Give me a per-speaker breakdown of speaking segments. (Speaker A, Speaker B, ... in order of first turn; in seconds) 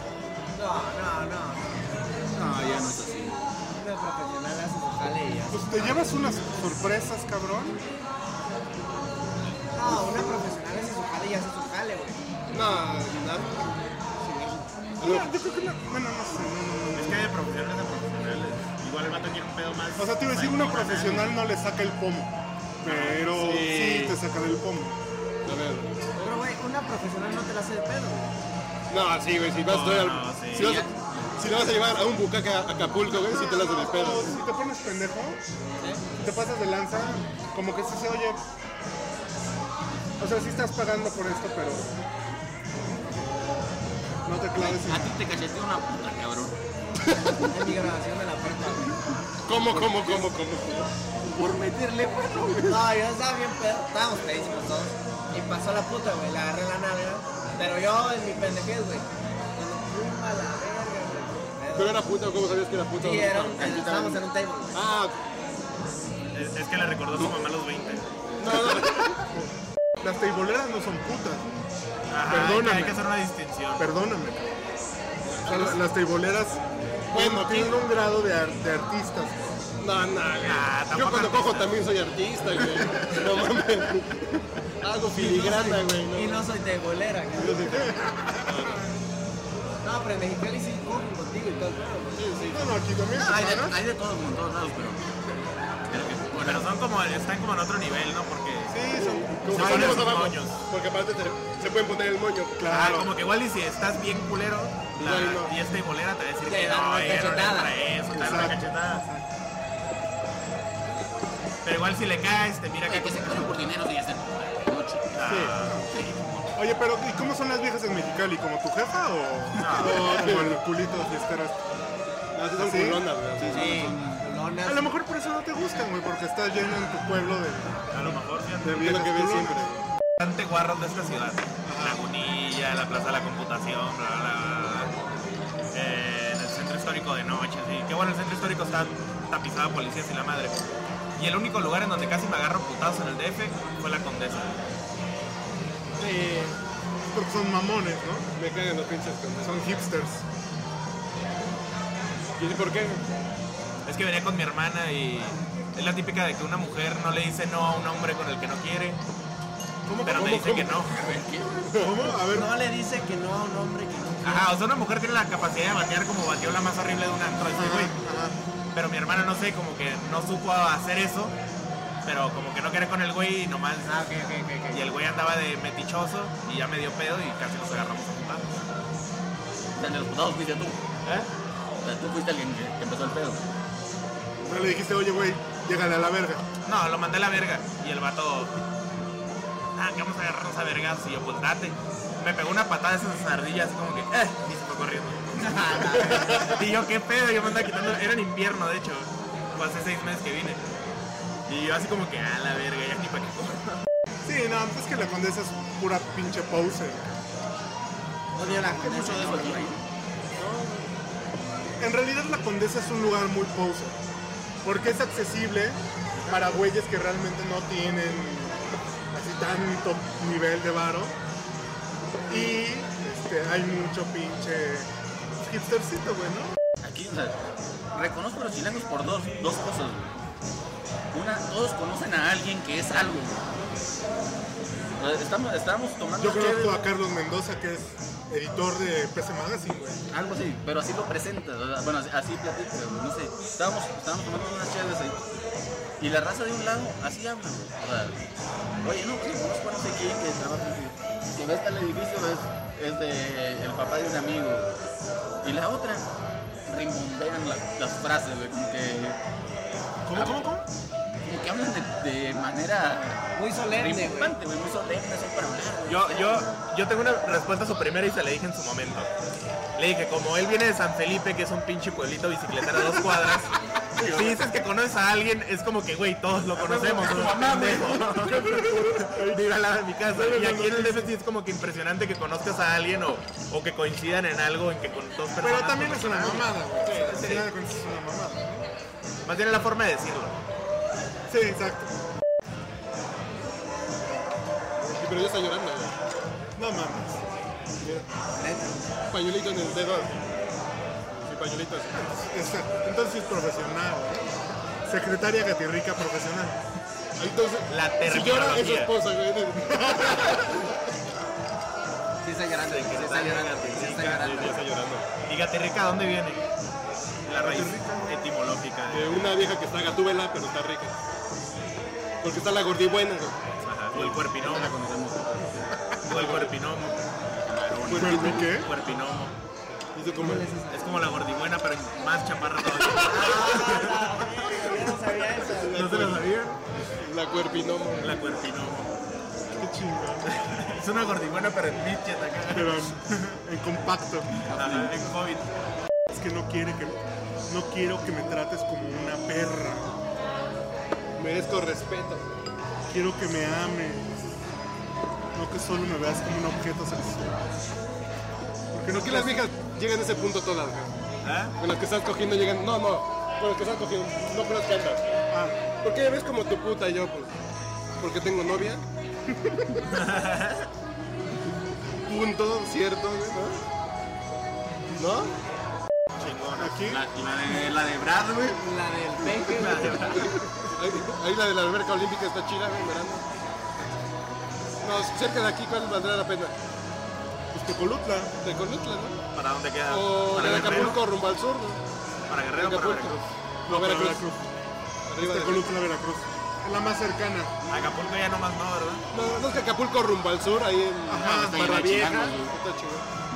Speaker A: 0.6-1.9, 3.8-6.2, 9.7-12.2, 14.2-14.7, 26.2-28.3, 47.5-49.0, 49.6-50.3, 52.6-62.0, 63.0-64.8, 85.1-87.9, 89.8-92.2, 106.5-107.8, 123.4-124.9, 162.3-164.5, 173.8-174.9, 195.4-196.6, 208.3-209.7, 263.4-264.4, 298.4-298.9, 312.2-314.6, 330.2-330.9, 332.9-335.9, 378.6-380.1
Speaker B: 2.3-3.4, 30.5-30.9, 44.6-46.6, 51.2-52.9, 63.5-64.2, 93.1-95.1, 95.9-96.7, 112.8-116.5, 123.5-123.7, 160.8-161.8, 179.8-180.8, 181.8-183.4, 208.4-209.8, 226.8-227.4, 227.9-230.2, 231.1-233.4, 235.0-236.8, 240.1-245.2, 246.0-248.2, 248.8-254.7, 255.4-256.1, 256.7-259.2, 261.3-266.5, 273.9-274.5, 276.5-278.5, 324.3-326.0, 327.4-328.5, 344.6-344.9, 376.9-378.6, 401.2-402.5
Speaker C: 5.5-7.8, 15.0-17.3, 19.9-25.0, 33.3-35.4, 36.2-38.4, 40.2-41.9, 44.2-45.1, 70.0-71.5, 72.3-73.1, 73.8-74.6, 75.5-79.4, 92.5-93.8, 98.7-100.2, 102.6-103.1, 108.1-109.3, 115.3-115.9, 116.6-121.6, 122.6-123.1, 124.6-129.6, 131.6-132.0, 147.1-148.3, 149.4-150.2, 159.8-160.8, 161.8-162.5, 167.5-168.4, 184.4-186.4, 204.2-207.0, 211.8-214.0, 214.6-218.6, 219.1-221.2, 222.3-226.6, 236.2-240.0, 260.1-260.7, 278.3-279.4, 280.1-281.1, 285.4-288.6, 291.3-291.9, 296.6-297.2, 301.9-304.3, 304.9-306.6, 309.8-310.3, 317.4-318.2, 327.9-328.7, 339.6-340.3, 342.5-344.3, 346.1-349.9, 352.9-354.1, 355.4-357.4, 358.7-359.4, 365.3-365.6, 369.3-369.8, 376.6-377.0, 387.5-388.3, 393.7-394.5, 395.2-397.5, 401.1-401.6
Speaker D: 12.5-13.7, 15.0-15.4, 23.2-24.2, 25.4-26.1, 28.9-34.4, 49.5-50.9, 61.7-63.6, 64.7-65.2, 68.4-69.2, 75.3-75.8, 77.1-77.8, 79.8-84.2, 84.8-86.5, 87.4-88.9, 92.2-92.8, 98.9-102.6, 105.0-105.6, 119.8-120.6, 122.3-124.0, 128.8-129.8, 146.0-146.6, 148.4-149.6, 152.4-153.1, 161.7-162.1, 294.8-295.9, 297.8-298.1, 299.1-300.2, 301.2-302.1, 307.2-310.7, 313.8-315.1, 318.9-321.0, 322.2-323.4, 323.9-324.3, 326.1-326.6, 327.8-328.5, 329.9-330.5, 335.5-336.3, 337.0-338.2, 351.2-352.2, 358.9-360.9, 361.6-365.0, 365.8-367.3, 368.0-368.9, 372.1-373.6, 374.9-375.4, 380.0-383.2, 384.8-386.6, 388.4-389.2, 389.9-391.8, 392.6-394.2, 395.1-395.8, 399.1-403.1
Speaker E: 16.9-21.4, 22.8-23.3, 29.6-30.8, 66.3-68.1, 72.1-73.9, 80.4-81.8, 96.4-98.8, 99.5-100.6, 102.7-109.0, 111.6-113.6, 115.1-115.9, 119.6-120.2, 127.9-128.9, 130.2-134.9, 135.7-140.6, 141.2-144.6, 153.9-159.0, 160.0-161.0, 164.2-168.0, 168.7-171.3, 172.1-174.1, 174.7-178.5, 181.0-181.3, 186.6-188.5, 189.8-200.6, 201.5-203.8, 265.9-269.1, 269.8-273.5, 274.1-287.5, 289.2-290.4, 307.7-309.0, 312.6-314.6, 315.3-316.4, 317.3-319.5, 323.6-324.8, 326.1-327.0, 328.0-329.3, 330.7-334.5, 335.7-336.6, 338.0-338.9, 340.3-342.9, 344.5-345.5, 361.2-361.5, 369.9-370.7, 376.2-376.9, 379.4-380.4, 389.3-391.0, 392.3-393.3, 397.7-399.0